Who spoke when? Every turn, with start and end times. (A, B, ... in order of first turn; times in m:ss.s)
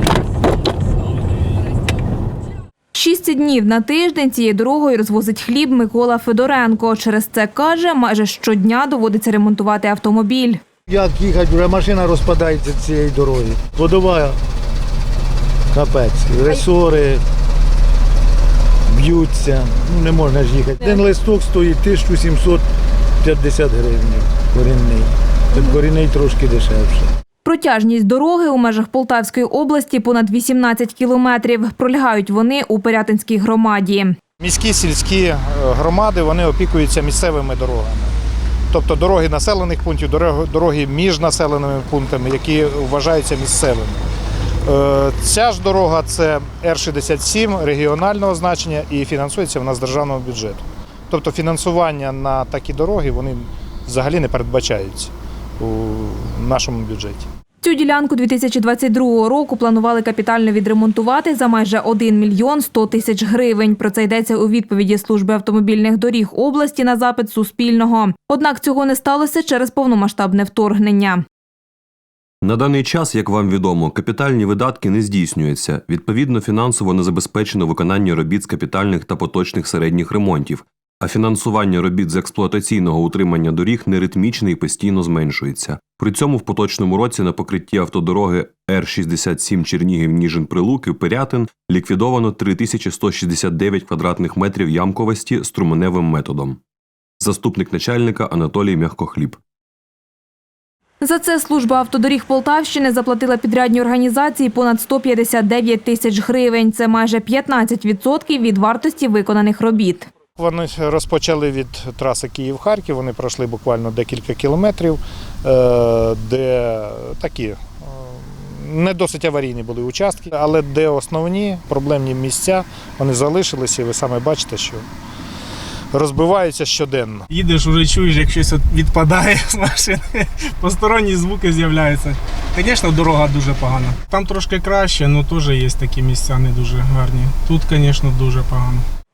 0:02.9-0:10.6 A
0:10.9-0:14.4 B
0:15.7-0:17.2 B
0:18.9-0:22.6 B
0:23.2-0:27.1 B
0:27.4-0:34.1 A
0:34.4-0:38.1 C
0:38.7-0:44.0 C
0:44.6-0:57.2 C
0:57.6-1:11.2 A
1:12.4-1:36.6 D
1:37.2-1:39.4 D
1:41.0-1:50.1 A
1:50.4-2:04.8 C
2:05.9-2:07.2 C
2:07.3-2:18.8 E